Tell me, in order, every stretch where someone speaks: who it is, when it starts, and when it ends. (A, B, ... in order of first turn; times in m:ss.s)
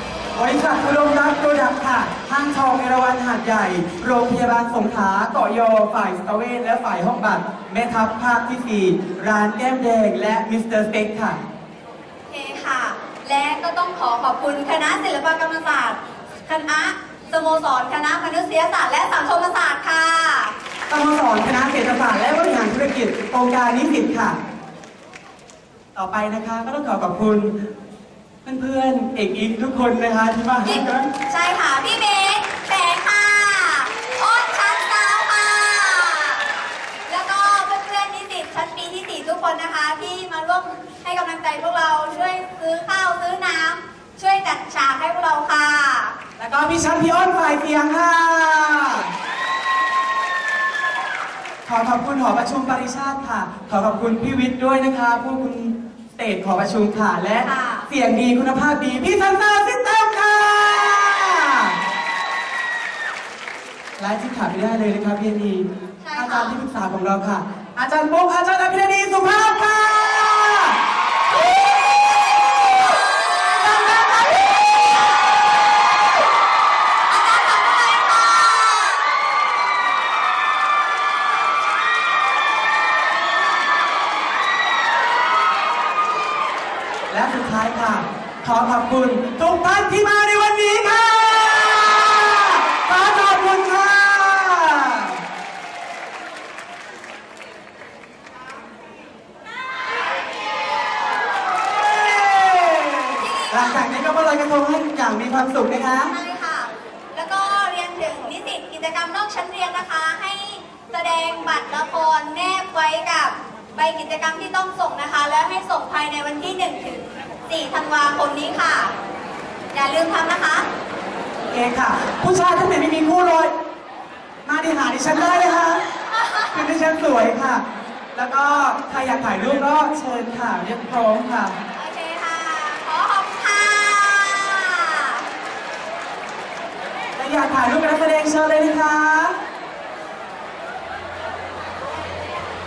0:00.4-0:11.4 A
0:12.3-0:20.5 B
0:20.9-0:24.4 A
0:26.0-0:27.6 A
0:28.4-0:31.1 A
0:30.6-0:36.5 B
0:37.1-0:46.2 B
0:46.4-0:49.1 A
0:51.7-1:01.8 A
0:57.4-0:57.9 B
1:04.0-1:10.8 A
1:06.0-1:06.6 B
1:11.4-1:14.5 B
1:17.1-1:19.2 B
1:27.1-1:35.2 A
1:41.8-1:46.1 A
1:43.2-1:43.9 B
1:46.1-1:58.9 B
1:59.7-2:00.7 B
2:01.5-2:03.5 A
2:04.4-2:05.9 A
2:05.1-2:06.7 B
2:06.5-2:07.6 A
2:08.2-2:11.6 A
2:11.7-2:15.3 B
2:17.2-2:19.4 A